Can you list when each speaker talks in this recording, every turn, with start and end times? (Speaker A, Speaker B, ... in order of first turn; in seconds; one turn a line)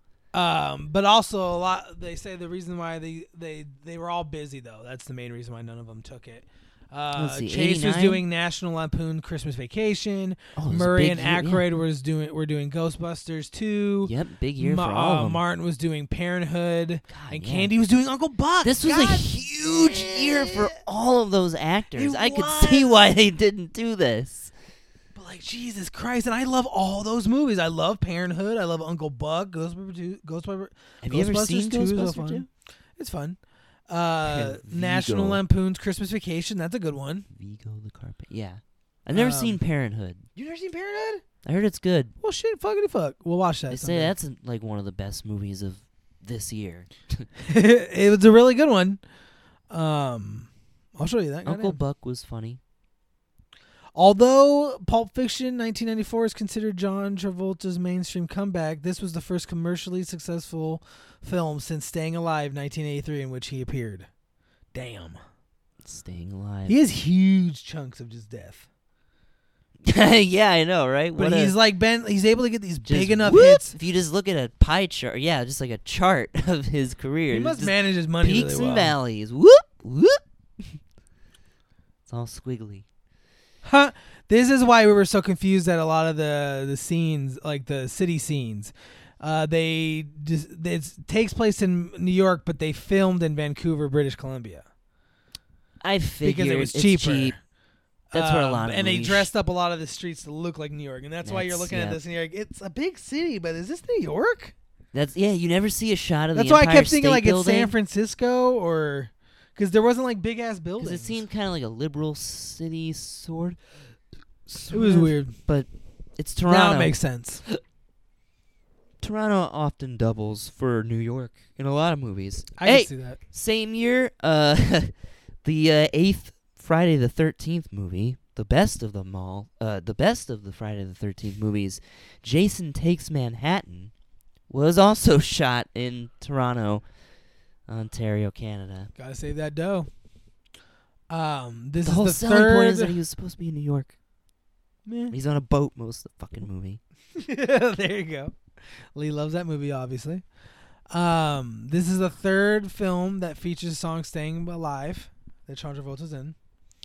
Speaker A: 0.3-20.8
Speaker B: 7.2-8.2
Speaker B: 10.6-11.6
Speaker B: 14.1-15.4
Speaker B: 17.1-17.7
Speaker B: 18.6-24.5
Speaker A: 21.9-23.0
Speaker A: 25.1-37.3
Speaker B: 31.0-32.5
Speaker B: 34.3-35.4
Speaker B: 37.3-40.3
Speaker A: 39.1-39.6
Speaker A: 40.4-41.2
Speaker B: 41.4-42.1
Speaker A: 42.2-44.1
Speaker B: 43.7-47.3
Speaker A: 47.5-49.0
Speaker A: 49.7-51.8
Speaker B: 51.5-52.6
Speaker A: 54.0-64.1
Speaker A: 64.7-65.2
Speaker B: 65.8-66.8
Speaker A: 66.7-68.7
Speaker B: 69.8-71.5
Speaker A: 71.2-73.8
Speaker B: 72.8-80.8
Speaker A: 77.3-79.0
Speaker B: 82.1-82.8
Speaker A: 83.6-94.7
Speaker B: 95.8-97.4
Speaker A: 96.2-97.4
Speaker A: 98.1-104.5
Speaker B: 98.1-99.3
Speaker B: 101.2-102.0
Speaker B: 104.9-107.7
Speaker A: 106.3-111.2
Speaker B: 110.8-113.6
Speaker B: 114.5-117.6
Speaker A: 114.7-115.4
Speaker A: 116.5-117.4
Speaker B: 119.0-133.9
Speaker A: 122.6-123.2
Speaker B: 134.5-136.9
Speaker B: 137.7-138.9
Speaker A: 139.0-139.9
Speaker A: 141.1-143.0
Speaker B: 141.8-144.0
Speaker A: 144.9-145.2
Speaker B: 145.1-146.8
Speaker A: 147.2-148.4
Speaker A: 148.9-150.2
Speaker A: 150.9-156.4